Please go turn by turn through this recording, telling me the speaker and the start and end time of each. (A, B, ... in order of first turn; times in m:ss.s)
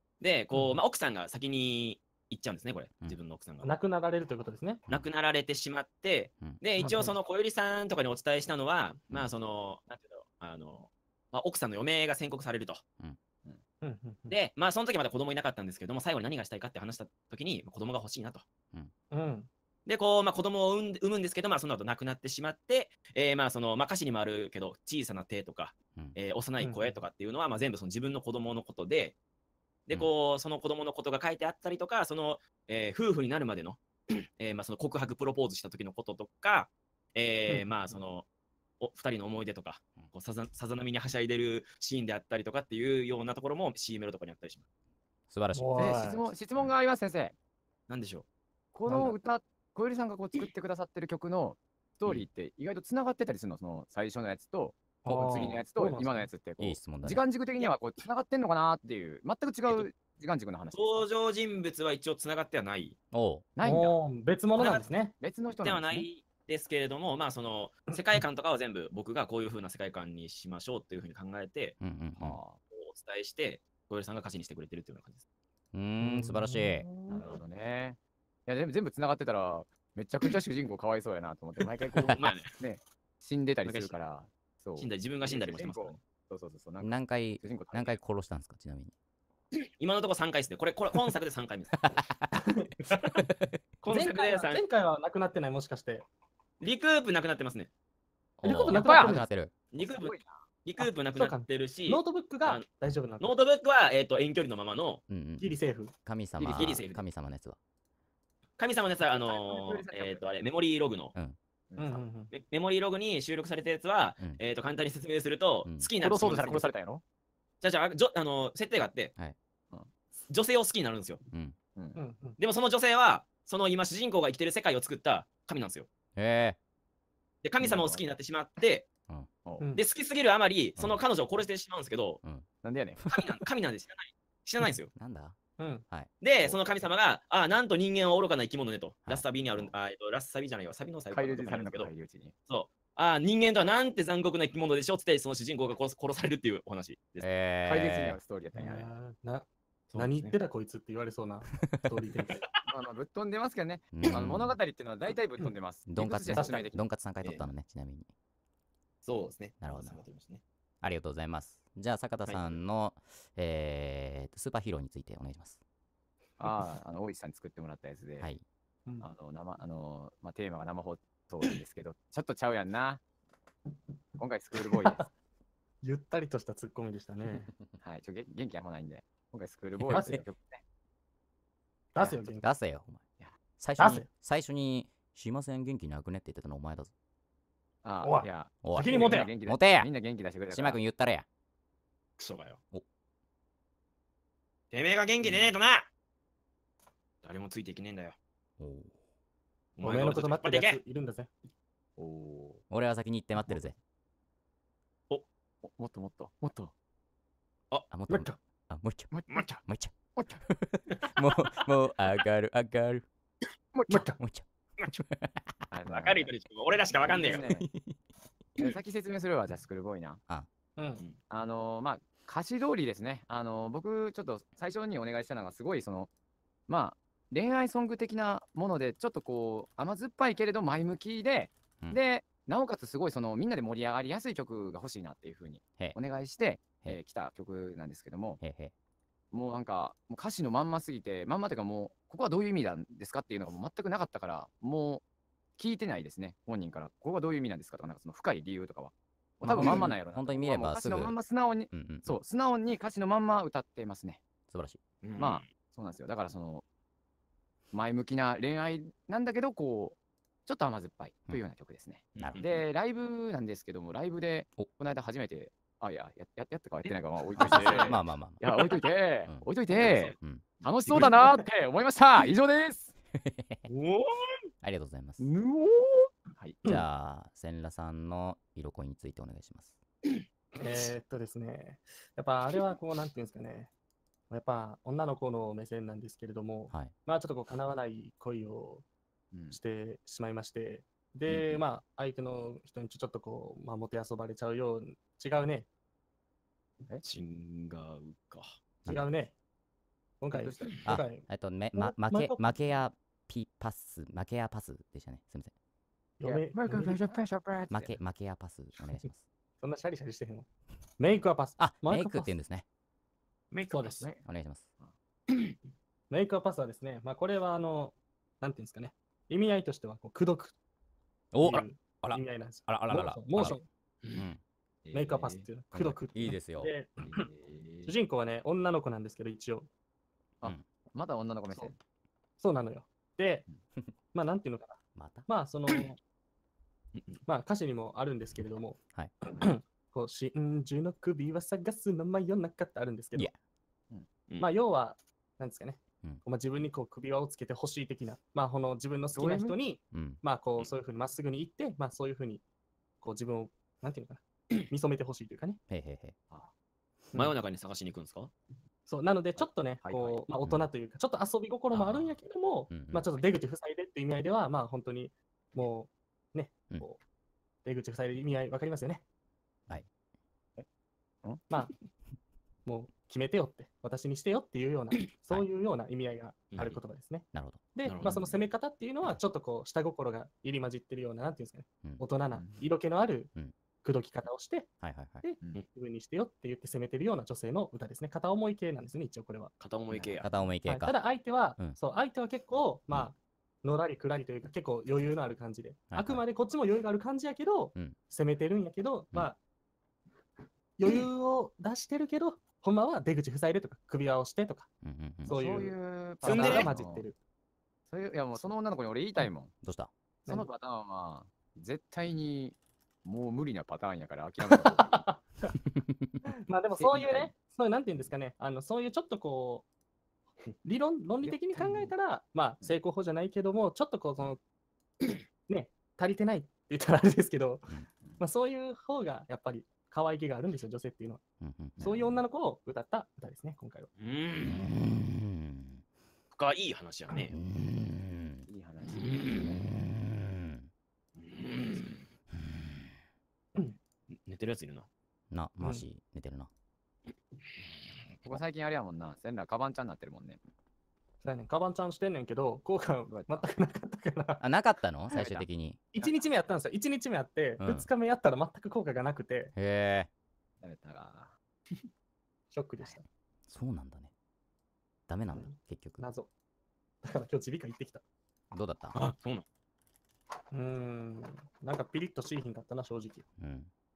0:00.2-0:03.7 A
0:00.5-0:00.8 B
0:03.6-0:04.8 B
0:04.9-0:12.8 A
0:06.4-0:06.9 C
0:06.8-0:07.1 B
0:13.8-0:14.3 B
0:14.3-0:18.4 A
0:19.1-0:19.5 B
0:19.8-0:29.2 A
0:26.6-0:27.0 B
0:29.9-0:33.8 A
0:34.4-0:38.2 A
0:38.8-0:44.6 A
0:45.3-0:46.0 C
0:45.5-0:46.2 B
0:45.8-0:47.3 D
0:47.9-0:48.2 A
0:48.7-1:01.1 D
0:48.9-0:49.1 B
0:55.0-0:56.3 B
0:55.3-0:55.6 A
0:56.6-0:57.2 C
1:00.7-1:03.0 A
1:03.1-1:03.4 C
1:03.6-1:03.9 D
1:03.6-1:05.1 B
1:04.6-1:04.9 A
1:05.2-1:06.1 D
1:05.6-1:11.8 A
1:11.8-1:12.4 C
1:12.2-1:12.6 D
1:12.7-1:15.2 A
1:15.7-1:16.8 C
1:16.0-1:17.4 B
1:17.1-1:28.0 D
1:22.0-1:22.5 A
1:23.6-1:23.9 A
1:24.8-1:26.0 A
1:26.8-1:28.9 C
1:29.8-1:32.0 A
1:31.8-1:32.3 C
1:32.3-1:32.7 B
1:32.9-1:33.2 A
1:33.2-1:33.6 C
1:33.8-1:34.6 A
1:33.9-1:36.0 B
1:36.6-1:37.7 A
1:38.4-1:39.5 C
1:38.4-1:39.3 B
1:38.7-1:39.1 A
1:38.8-1:39.0 D
1:39.7-1:42.6 A
1:39.8-1:40.4 D
1:40.8-1:43.3 B
1:43.2-1:45.0 A
1:45.1-1:47.6 C
1:45.4-1:45.9 B
1:46.4-1:46.8 D
1:46.4-1:47.0 A
1:48.6-1:51.1 A
1:49.1-1:50.3 D
1:51.7-1:52.0 D
1:51.8-1:52.3 B
1:52.3-1:56.7 A
1:56.0-1:57.0 D
1:57.6-1:59.1 A
2:00.3-2:01.2 A
2:01.9-2:02.4 B
2:02.4-2:05.9 A
2:06.2-2:06.6 C
2:07.4-2:08.9 A
2:07.6-2:08.0 C
2:09.7-2:12.2 A
2:12.6-2:13.0 D
2:13.1-2:14.9 A
2:14.9-2:15.3 C
2:15.6-2:15.8 B
2:15.9-2:16.6 C
2:16.2-2:21.9 A
2:21.1-2:22.3 D
2:22.5-2:27.3 A
2:27.2-2:28.2 C
2:27.6-2:28.9 D
2:28.5-2:32.4 B
2:29.9-2:30.3 A
2:32.3-2:32.6 A
2:32.7-2:36.8 D
2:33.9-2:34.6 C
2:35.9-2:38.1 C
2:36.3-2:36.6 B
2:39.0-2:40.4 A
2:39.6-2:40.0 C
2:40.8-2:45.6 C
2:42.2-2:42.6 A
2:46.4-2:48.3 D
2:49.0-2:53.0 D
2:54.2-2:55.1 D
2:54.6-2:55.0 B
2:55.8-2:57.5 B
2:57.8-3:00.6 D
2:59.8-3:00.2 C
2:59.9-3:00.2 B
3:01.9-3:02.5 B
3:02.0-3:03.0 C
3:03.6-3:06.9 C
3:03.8-3:04.1 B
3:07.8-3:10.8 D
3:08.0-3:09.3 B
3:08.6-3:09.9 C
3:10.5-3:11.2 C
3:12.2-3:12.6 A
3:14.7-3:15.9 A
3:15.2-3:15.5 D
3:17.2-3:18.2 A
3:18.6-3:18.9 C
3:19.8-3:20.8 A
3:19.8-3:21.3 B
3:22.0-3:22.6 D
3:22.7-3:23.7 C
3:25.6-3:26.7 D
3:27.9-3:29.1 C
3:28.1-3:28.4 B
3:29.1-3:29.5 D
3:29.3-3:29.6 A
3:29.6-3:29.9 C
3:30.2-3:30.4 D
3:30.5-3:33.0 C
3:33.7-3:34.1 D
3:33.9-3:34.2 B
3:34.2-3:35.6 C
3:35.7-3:36.3 D
3:35.9-3:37.5 A
3:37.0-3:37.7 D
3:37.4-3:38.0 C
3:38.6-3:40.2 D
3:40.8-3:41.0 B
3:41.3-3:46.1 D
3:46.7-3:58.4 D
3:58.4-3:58.7 C
3:59.3-4:05.0 D
4:05.6-4:14.2 D
4:09.4-4:11.1 C
4:09.5-4:09.9 B
4:11.7-4:12.2 C
4:14.5-4:14.8 C
4:15.0-4:15.5 A
4:15.2-4:16.6 D
4:17.7-4:32.9 D
4:22.2-4:22.4 C
4:22.2-4:22.6 A
4:26.8-4:28.0 A
4:27.4-4:27.9 B
4:27.7-4:28.4 C
4:29.7-4:30.2 A
4:30.2-4:30.4 C
4:33.2-4:33.7 C
4:33.7-4:34.4 A
4:34.6-4:35.2 C
4:35.2-4:36.6 D
4:36.6-4:39.8 C
4:40.6-4:43.7 B
4:44.3-4:48.8 B
4:49.3-4:49.6 D
4:49.5-4:55.7 B
4:57.0-4:58.6 A
4:58.8-4:59.1 C
4:58.8-4:59.3 B
5:00.2-5:02.4 B
5:00.3-5:00.7 D
5:00.8-5:05.5 C
5:06.2-5:07.1 B
5:06.2-5:08.0 D
5:07.7-5:09.2 C
5:09.6-5:10.4 B
5:11.0-5:12.3 B
5:11.6-5:12.6 C
5:13.5-5:14.1 B
5:13.8-5:14.2 D
5:14.2-5:14.7 C
5:16.1-5:20.5 B
5:21.3-5:23.6 C
5:21.4-5:23.6 B
5:24.0-5:24.3 A
5:24.1-5:24.4 C
5:24.8-5:25.4 A
5:24.9-5:27.2 B
5:25.7-5:26.7 C
5:27.0-5:27.6 D
5:27.5-5:27.9 A
5:27.8-5:29.7 B
5:30.4-5:31.8 D
5:32.4-5:33.4 B
5:34.1-5:36.0 B
5:34.9-5:35.3 C
5:37.2-5:43.3 B
5:44.4-5:52.4 B
5:49.1-5:49.6 D
5:49.9-5:50.2 C
5:53.0-5:55.6 B
5:55.7-5:56.1 C
5:57.1-5:58.3 A
5:58.9-6:07.0 B
5:59.4-6:00.2 D
6:01.7-6:02.1 C
6:02.7-6:03.1 C
6:07.6-6:09.0 B
6:12.6-6:23.3 B
6:17.3-6:17.6 C
6:17.8-6:18.3 A
6:23.8-6:29.5 B
6:24.8-6:25.2 C
6:29.6-6:30.3 A
6:29.9-6:30.5 D
6:30.2-6:31.0 C
6:30.6-6:39.4 B
6:35.9-6:36.2 C
6:40.8-6:44.7 B
6:44.8-6:45.3 C
6:45.2-6:47.0 D
6:45.2-6:47.2 B
6:46.2-6:46.7 A
6:47.9-6:49.5 D
6:49.6-6:49.9 C
6:50.3-6:54.9 D
6:54.4-6:55.5 B
6:56.2-6:59.6 B
6:56.8-6:57.3 D
7:00.6-7:04.4 B
7:01.3-7:01.9 D
7:05.5-7:11.2 B
7:11.4-7:11.8 C
7:11.8-7:12.2 D
7:11.8-7:13.9 B
7:14.0-7:14.7 A
7:14.4-7:15.8 C
7:16.3-7:17.3 A
7:17.3-7:18.4 C
7:18.5-7:19.8 D
7:19.0-7:19.4 A
7:19.4-7:20.7 C
7:21.2-7:21.9 A
7:22.4-7:22.7 C
7:24.1-7:24.9 A
7:25.3-7:26.5 C
7:28.2-7:30.4 D
7:31.2-7:34.4 B
7:33.1-7:33.5 D
7:34.4-7:35.8 C
7:35.1-7:35.4 D
7:35.9-7:39.5 B
7:37.6-7:37.9 C
7:39.5-7:40.1 C
7:40.6-7:41.3 D
7:42.5-7:43.0 B
7:43.5-7:44.1 C
7:45.1-7:46.0 C
7:45.3-7:46.3 B
7:47.0-7:48.0 B
7:48.5-7:49.0 C
7:48.9-7:49.4 A
7:50.5-7:53.2 B
7:53.4-7:53.7 C